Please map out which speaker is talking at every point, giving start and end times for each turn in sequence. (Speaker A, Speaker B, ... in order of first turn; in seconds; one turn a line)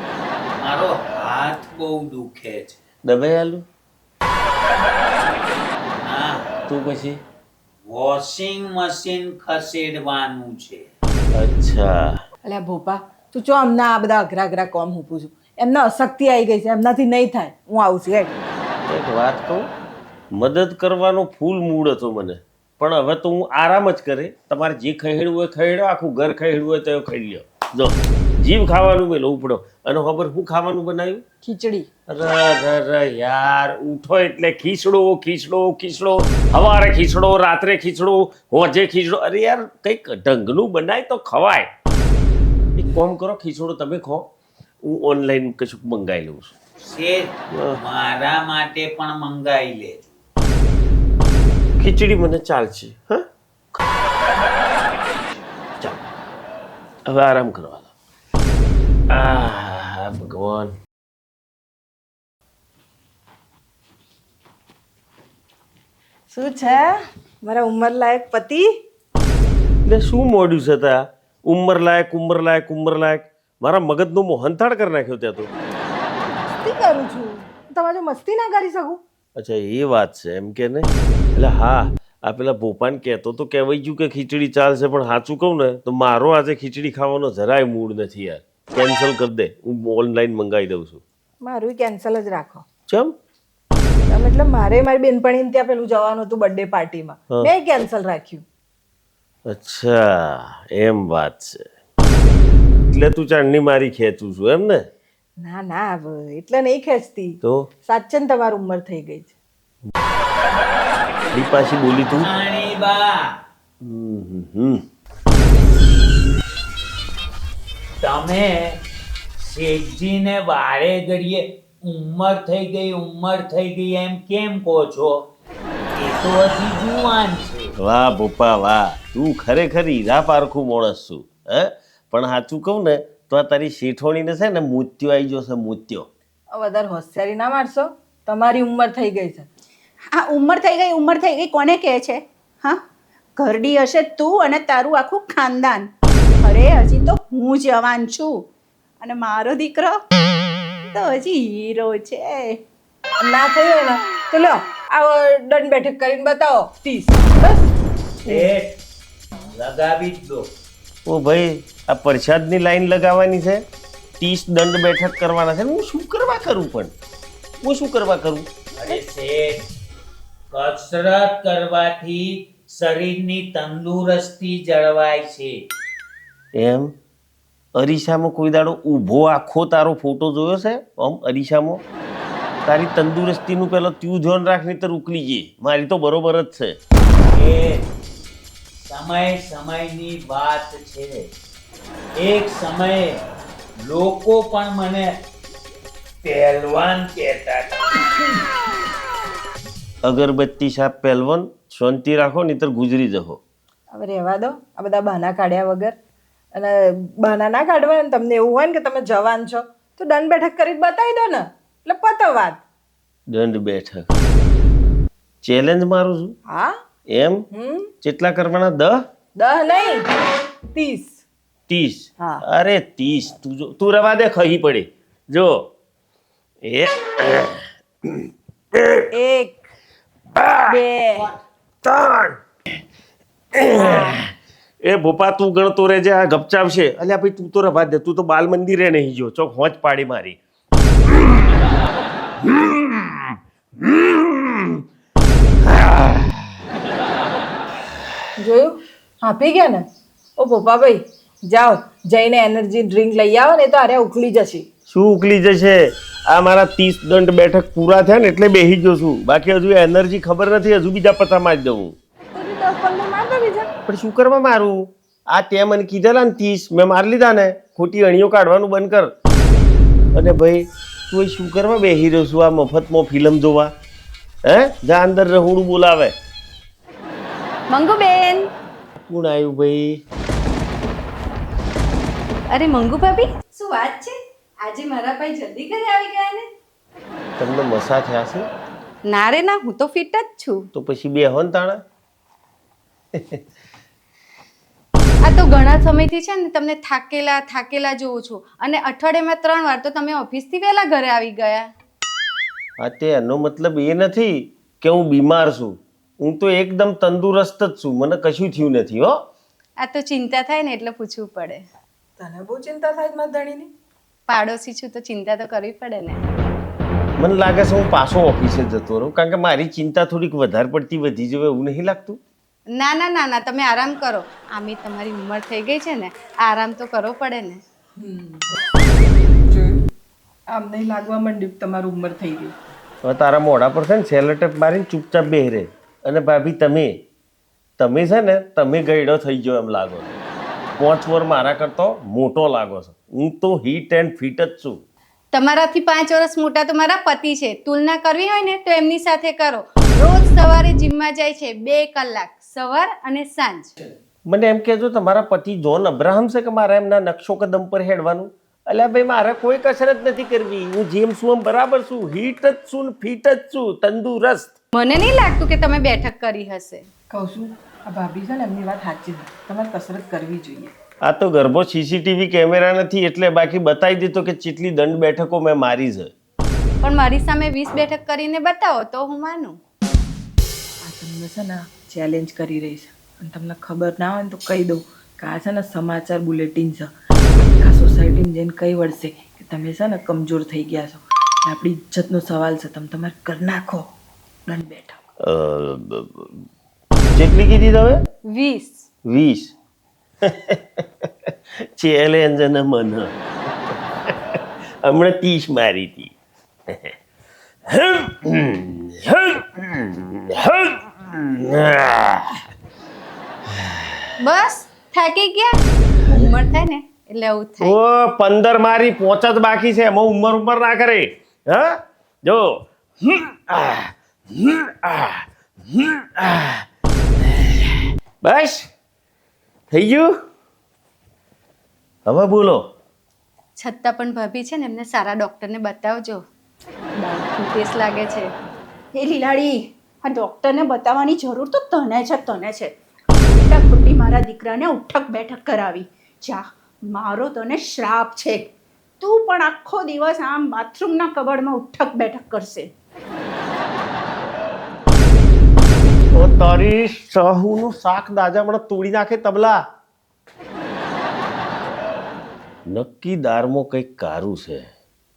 Speaker A: 0.6-2.8
Speaker B: 3.1-3.6
Speaker A: 6.0-6.4
Speaker B: 6.7-7.2
Speaker A: 7.9-10.9
Speaker B: 11.3-12.2
Speaker C: 12.5-18.4
Speaker B: 18.9-19.7
Speaker B: 20.4-31.2
Speaker C: 31.4-31.9
Speaker B: 32.1-41.7
Speaker B: 42.8-44.3
Speaker B: 44.8-46.5
Speaker A: 46.8-50.2
Speaker B: 51.8-53.2
Speaker B: 57.1-57.9
Speaker B: 59.1-60.7
Speaker C: 66.3-68.7
Speaker B: 69.9-75.5
Speaker C: 76.2-79.0
Speaker B: 79.4-91.0
Speaker C: 91.4-92.7
Speaker B: 92.9-93.2
Speaker C: 94.1-98.4
Speaker B: 99.5-101.6
Speaker B: 102.9-104.9
Speaker C: 105.4-109.3
Speaker B: 107.4-107.7
Speaker B: 111.3-112.3
Speaker A: 112.2-113.2
Speaker B: 113.8-114.8
Speaker A: 118.0-118.8
Speaker A: 119.4-125.1
Speaker A: 126.0-127.7
Speaker B: 127.8-136.1
Speaker C: 136.5-139.5
Speaker D: 140.1-142.8
Speaker D: 143.4-145.9
Speaker D: 146.4-148.4
Speaker D: 149.0-150.0
Speaker D: 150.9-152.6
Speaker C: 153.2-157.7
Speaker A: 158.2-158.8
Speaker A: 159.5-160.5
Speaker B: 161.1-163.6
Speaker B: 164.2-166.9
Speaker B: 167.6-168.5
Speaker A: 168.8-169.6
Speaker A: 170.5-175.5
Speaker B: 176.6-176.9
Speaker B: 177.8-181.8
Speaker B: 182.7-186.8
Speaker A: 187.3-187.9
Speaker A: 188.8-191.1
Speaker A: 192.2-193.2
Speaker A: 193.8-195.1
Speaker A: 196.2-198.3
Speaker B: 200.0-203.4
Speaker C: 203.9-205.9
Speaker C: 206.6-212.6
Speaker B: 213.3-214.1
Speaker B: 215.4-216.3
Speaker C: 216.5-216.8
Speaker B: 217.1-217.4
Speaker C: 217.5-217.9
Speaker B: 218.0-219.0
Speaker C: 219.4-220.1
Speaker C: 220.7-221.2
Speaker B: 221.7-225.7
Speaker B: 226.6-229.0
Speaker C: 229.1-229.6
Speaker C: 230.7-231.3
Speaker B: 231.8-232.4
Speaker B: 233.6-234.2
Speaker C: 233.8-234.2
Speaker B: 234.8-240.4
Speaker B: 241.1-241.7
Speaker B: 242.4-244.8
Speaker B: 245.7-246.5
Speaker C: 248.4-249.8
Speaker C: 250.4-254.7
Speaker B: 254.9-261.9
Speaker C: 262.3-263.7
Speaker B: 263.9-269.1
Speaker B: 270.1-273.7
Speaker B: 274.5-276.1
Speaker E: 277.7-278.5
Speaker B: 279.1-280.0
Speaker E: 282.5-286.5
Speaker B: 287.4-288.5
Speaker E: 289.1-290.7
Speaker B: 290.7-291.8
Speaker B: 293.1-293.4
Speaker E: 295.2-301.7
Speaker B: 302.8-309.1
Speaker E: 309.8-311.6
Speaker C: 312.2-313.7
Speaker E: 314.3-316.2
Speaker B: 317.2-322.2
Speaker E: 322.7-327.6
Speaker C: 328.0-328.5
Speaker C: 329.5-329.8
Speaker C: 330.5-332.6
Speaker B: 333.0-336.9
Speaker B: 337.8-340.1
Speaker B: 340.8-344.8
Speaker E: 345.3-353.7
Speaker B: 354.3-364.6
Speaker E: 364.7-366.9
Speaker C: 367.1-370.7
Speaker B: 371.1-376.1
Speaker E: 376.8-379.6
Speaker C: 380.8-393.9
Speaker C: 394.5-395.0
Speaker B: 395.2-396.4
Speaker B: 397.1-398.0
Speaker C: 398.3-398.8
Speaker B: 399.1-399.5
Speaker B: 400.2-403.1
Speaker B: 403.7-406.1
Speaker B: 406.7-406.9
Speaker B: 407.7-412.4
Speaker B: 413.5-414.1
Speaker E: 414.2-415.6
Speaker B: 416.1-416.3
Speaker E: 416.1-417.7
Speaker B: 417.6-426.6
Speaker B: 427.2-428.7
Speaker B: 429.7-430.1
Speaker B: 432.1-432.6
Speaker E: 433.6-436.2
Speaker E: 437.1-438.3
Speaker D: 438.9-442.7
Speaker D: 443.2-448.5
Speaker D: 449.0-452.7
Speaker B: 456.1-459.6
Speaker B: 462.7-464.7